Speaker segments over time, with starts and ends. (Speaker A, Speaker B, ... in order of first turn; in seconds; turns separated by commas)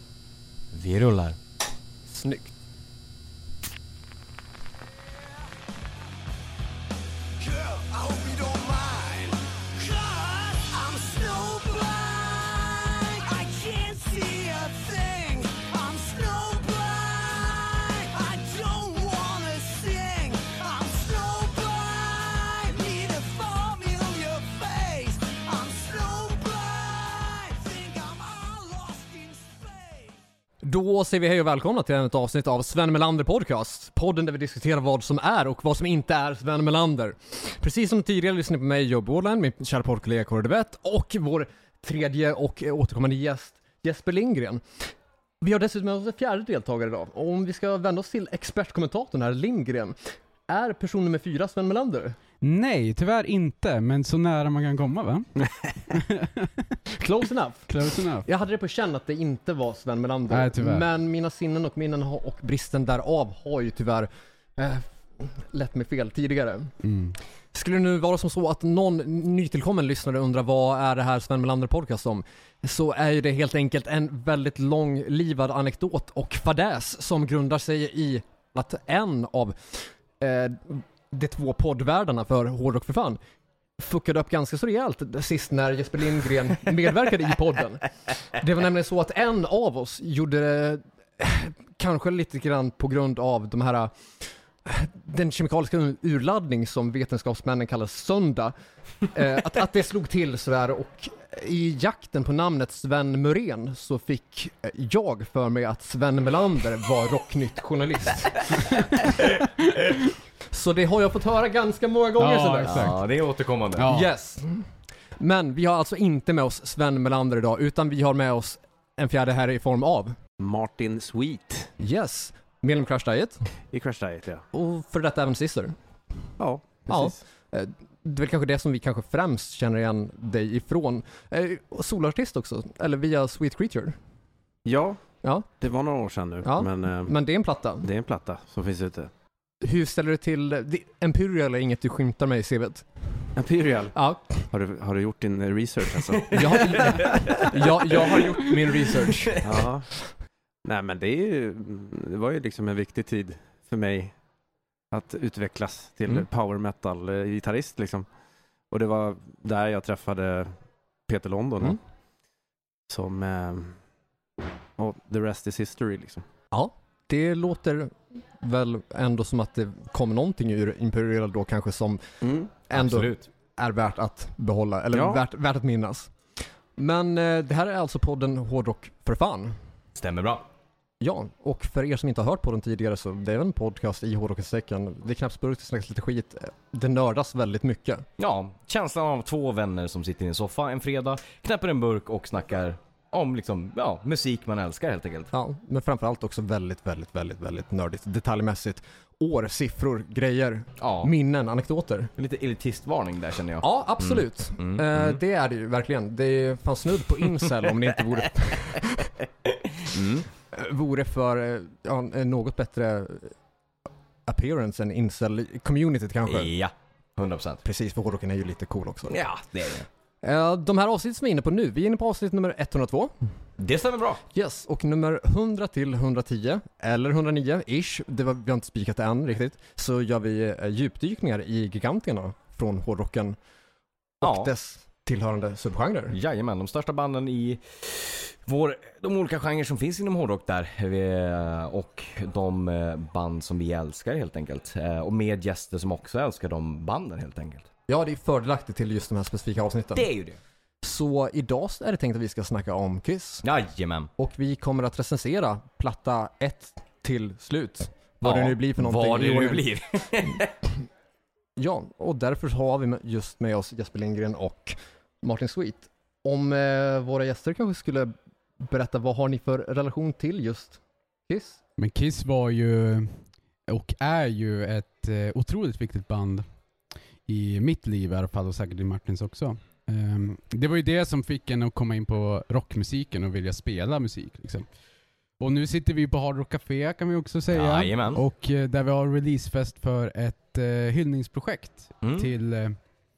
Speaker A: 0.7-1.4, Speaker B: 2.1-2.5, Speaker C: 8.2-8.5, Speaker D: 9.8-11.8, Speaker C: 11.0-11.4, Speaker D: 12.6-21.8, Speaker C: 18.7-20.3, Speaker D: 22.6-23.7, Speaker C: 23.6-26.5, Speaker D: 24.3-26.6, Speaker D: 27.5-29.1, Speaker B: 30.6-44.6, Speaker B: 45.4-50.0, Speaker B: 50.5-52.2, Speaker E: 52.4-55.3, Speaker C: 55.4-55.8, Speaker E: 55.9-56.5, Speaker B: 56.9-66.7, Speaker E: 57.7-58.2, Speaker E: 60.3-60.9, Speaker E: 66.8-67.2, Speaker B: 67.5-83.2, Speaker B: 83.8-93.9, Speaker B: 94.6-98.5, Speaker B: 99.1-109.3, Speaker B: 110.5-113.0, Speaker E: 112.2-113.0, Speaker A: 112.6-113.9, Speaker E: 113.8-114.1, Speaker B: 113.8-114.7, Speaker B: 115.2-120.2, Speaker C: 120.4-121.7, Speaker B: 121.8-123.4, Speaker C: 123.7-124.4, Speaker B: 124.5-125.8, Speaker C: 126.4-127.2, Speaker B: 126.9-133.9, Speaker C: 134.6-135.0, Speaker C: 135.6-137.1, Speaker B: 136.4-137.9, Speaker C: 137.8-139.1, Speaker B: 139.6-142.8, Speaker C: 143.3-143.9, Speaker B: 143.9-144.5, Speaker C: 144.5-146.9, Speaker B: 146.3-149.4, Speaker A: 146.3-148.2, Speaker A: 149.0-149.7, Speaker C: 149.4-150.0, Speaker C: 150.6-154.1, Speaker C: 154.9-158.1, Speaker C: 158.7-160.5, Speaker C: 161.1-161.8, Speaker C: 162.9-163.8, Speaker C: 164.8-166.2, Speaker B: 166.5-176.1, Speaker C: 172.2-172.5, Speaker A: 172.7-173.3, Speaker C: 174.9-175.2, Speaker B: 176.8-179.5, Speaker A: 179.9-180.4, Speaker B: 181.0-188.1, Speaker A: 188.2-195.3, Speaker B: 195.3-202.1, Speaker A: 200.8-201.1, Speaker A: 202.2-205.2, Speaker B: 203.6-209.2, Speaker A: 209.8-210.3, Speaker B: 210.5-213.3, Speaker B: 214.2-216.5, Speaker A: 216.3-217.6, Speaker B: 217.6-219.2, Speaker A: 219.1-219.9, Speaker B: 220.2-223.1, Speaker A: 223.6-224.2, Speaker B: 224.3-233.4, Speaker B: 234.2-236.2, Speaker A: 234.2-234.5, Speaker A: 236.1-247.7, Speaker B: 247.9-250.1, Speaker A: 249.9-250.4, Speaker B: 250.8-253.4, Speaker A: 253.4-254.1, Speaker B: 254.2-259.6, Speaker A: 258.2-260.5, Speaker B: 261.6-271.6, Speaker E: 271.8-276.4, Speaker E: 277.2-284.6, Speaker E: 285.4-292.8, Speaker A: 287.5-288.2, Speaker A: 292.0-292.3